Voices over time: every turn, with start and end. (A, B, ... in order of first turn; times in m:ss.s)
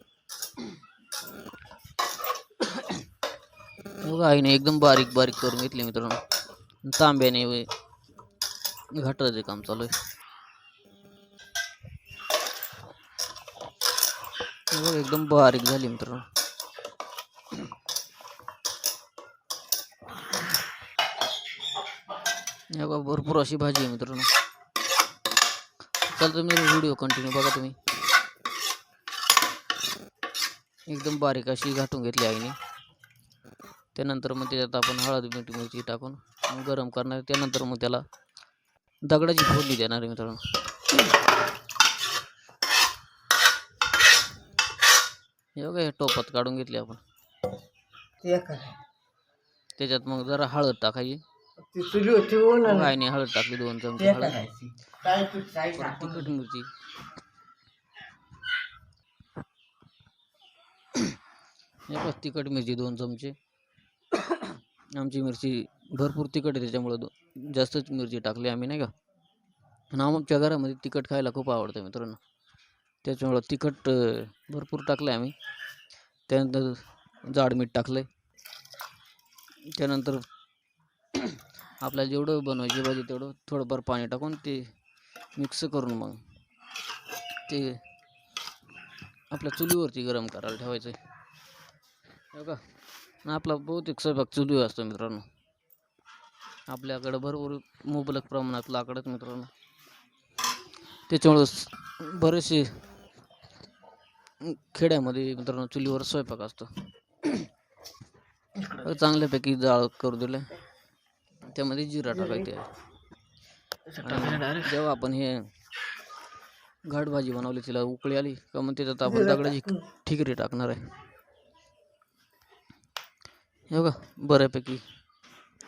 0:04.0-0:06.2 A
0:06.8-0:07.7 A
0:09.0-0:09.9 A
0:14.7-0:16.3 A
0:22.7-0:24.3 A
0:26.1-0:27.8 A
0:30.9-0:32.6 A
0:34.0-0:38.0 A
0:39.1-0:40.4 A
0:45.6-0:47.0 A
0:48.2-0:48.8 B
0:49.8-0:51.2 A
0:51.7-0:52.9 B
0:52.6-0:54.4 A
0:54.0-0:56.2 B
0:55.7-0:56.7 A
1:01.9-1:03.3 A
1:04.2-1:08.9 A
1:09.9-1:12.2 A
1:13.0-1:15.4 A
1:16.3-1:18.1 A
1:19.8-1:20.3 A
1:21.1-1:24.6 A
1:25.4-1:26.2 A
1:27.5-1:27.8 A
1:29.3-1:31.0 A
1:32.3-1:32.6 A
1:33.2-1:35.2 A
1:36.7-1:39.5 A
1:41.1-1:42.7 A
1:44.4-1:46.7 A
1:48.8-1:50.5 A
1:51.4-1:52.7 A
1:54.0-1:55.4 A
1:56.9-2:00.8 A
1:59.4-1:59.7 B
2:03.7-2:04.8 A